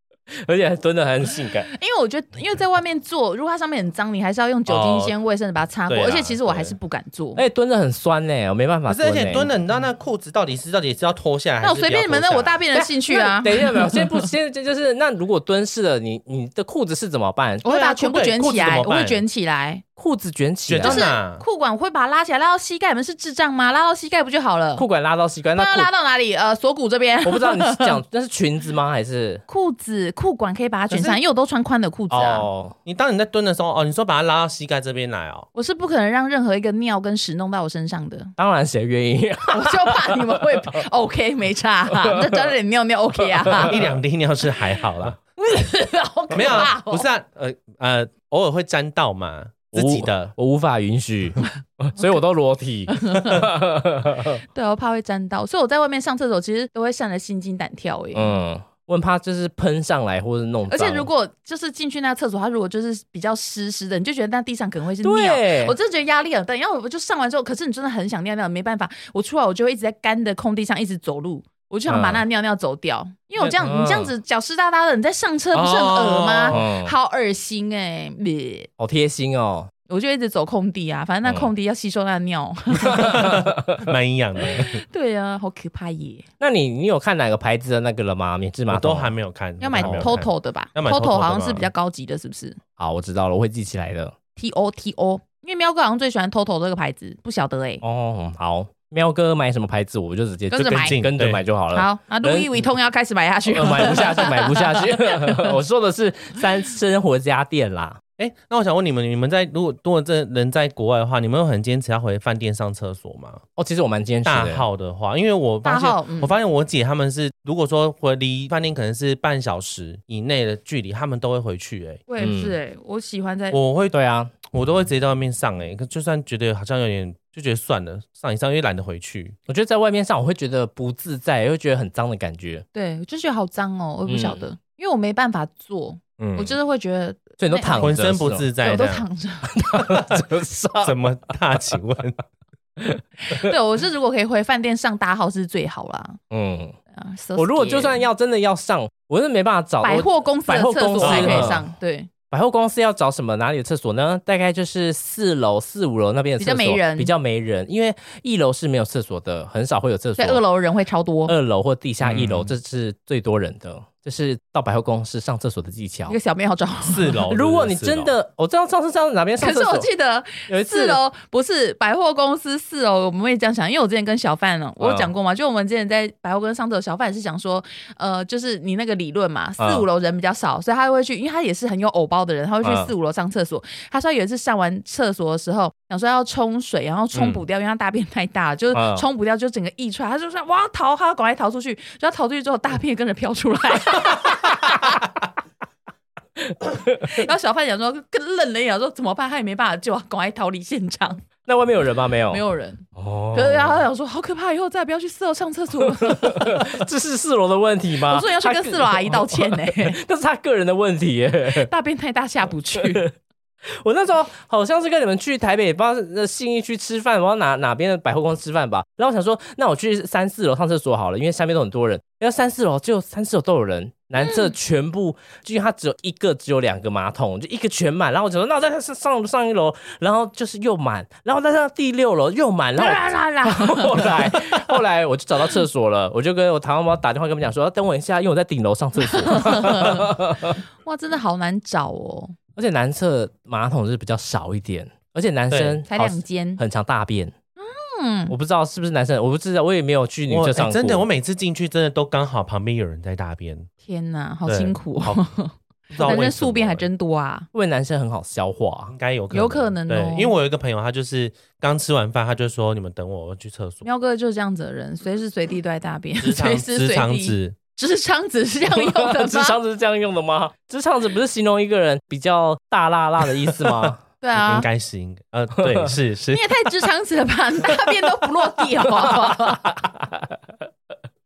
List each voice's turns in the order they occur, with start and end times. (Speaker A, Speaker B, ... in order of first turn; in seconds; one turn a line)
Speaker A: 0.4-1.7
Speaker B: 1.7-7.4
Speaker C: 4.7-5.1
Speaker C: 5.9-6.7
Speaker A: 7.3-9.5
Speaker C: 8.9-12.6
Speaker B: 11.6-14.2
Speaker A: 12.7-17.6
Speaker B: 17.6-19.8
Speaker C: 17.6-19.2
Speaker A: 20.0-21.1
Speaker C: 20.7-21.4
Speaker B: 20.8-24.8
Speaker A: 24.8-25.9
Speaker B: 25.5-28.0
Speaker A: 27.2-29.4
Speaker B: 29.5-32.5
Speaker C: 30.9-31.2
Speaker A: 32.1-32.8
Speaker C: 32.9-35.5
Speaker B: 35.5-38.3
Speaker A: 38.4-40.7
Speaker B: 39.5-43.8
Speaker C: 43.6-45.2
Speaker B: 45.4-47.0
Speaker C: 46.3-50.3
Speaker A: 49.7-54.4
Speaker B: 53.0-53.4
Speaker B: 54.5-58.4
Speaker A: 58.1-61.1
Speaker B: 60.7-78.7
Speaker A: 65.0-65.7
Speaker A: 71.9-72.2
Speaker A: 73.4-74.1
Speaker C: 75.5-76.6
Speaker A: 76.5-76.9
Speaker A: 78.8-79.7
Speaker B: 79.9-83.2
Speaker A: 81.2-81.5
Speaker A: 82.9-83.8
Speaker C: 83.0-84.8
Speaker B: 84.5-86.2
Speaker A: 86.4-89.1
Speaker C: 88.7-91.7
Speaker B: 89.6-92.6
Speaker A: 89.8-90.1
Speaker A: 92.8-94.1
Speaker B: 94.3-97.8
Speaker A: 97.8-102.7
Speaker B: 100.5-101.0
Speaker C: 100.6-101.4
Speaker B: 101.7-105.4
Speaker A: 103.5-108.0
Speaker C: 108.2-113.4
Speaker A: 113.6-114.6
Speaker C: 114.2-122.0
Speaker B: 115.6-116.3
Speaker B: 122.1-123.6
Speaker A: 122.2-122.5
Speaker C: 123.5-124.0
Speaker A: 123.9-124.3
Speaker C: 124.5-129.3
Speaker A: 129.5-132.6
Speaker B: 132.7-137.9
Speaker A: 134.1-134.4
Speaker A: 136.2-136.6
Speaker A: 137.4-138.5
Speaker C: 137.8-139.0
Speaker B: 138.6-139.6
Speaker A: 139.5-140.9
Speaker C: 139.8-140.2
Speaker C: 140.8-142.2
Speaker A: 142.8-143.5
Speaker B: 143.2-146.2
Speaker A: 146.3-146.8
Speaker B: 146.9-148.1
Speaker A: 147.3-151.7
Speaker B: 149.8-152.1
Speaker C: 151.0-151.6
Speaker A: 152.3-160.4
Speaker B: 156.4-157.1
Speaker B: 160.2-161.3
Speaker A: 161.3-166.2
Speaker C: 162.0-162.5
Speaker B: 166.1-167.2
Speaker C: 166.8-168.1
Speaker A: 167.3-169.9
Speaker B: 169.4-195.0
Speaker A: 170.5-171.0
Speaker A: 174.8-175.1
Speaker A: 179.6-179.8
Speaker A: 182.6-182.9
Speaker C: 187.1-187.4
Speaker A: 188.7-189.0
Speaker A: 196.5-197.1
Speaker B: 197.0-201.2
Speaker A: 201.4-202.4
Speaker B: 202.3-206.8
Speaker A: 202.9-203.8
Speaker A: 206.0-211.7
Speaker B: 208.1-210.0
Speaker B: 211.5-213.0
Speaker A: 212.7-213.1
Speaker A: 213.8-240.6
Speaker B: 224.2-224.5
Speaker B: 232.8-234.6
Speaker B: 239.2-240.1
Speaker B: 240.8-242.3
Speaker A: 242.6-247.3
Speaker C: 245.5-245.8
Speaker B: 245.9-246.6
Speaker B: 247.6-248.3
Speaker A: 248.3-251.0
Speaker C: 250.3-253.7
Speaker B: 253.8-257.5
Speaker C: 254.4-255.2
Speaker C: 255.9-256.9
Speaker A: 257.5-258.9
Speaker C: 258.9-263.9
Speaker B: 259.3-260.3
Speaker B: 263.8-269.6
Speaker C: 266.2-267.6
Speaker A: 268.7-274.0
Speaker B: 274.2-274.7
Speaker C: 274.4-276.5
Speaker B: 276.3-279.8
Speaker A: 279.3-280.2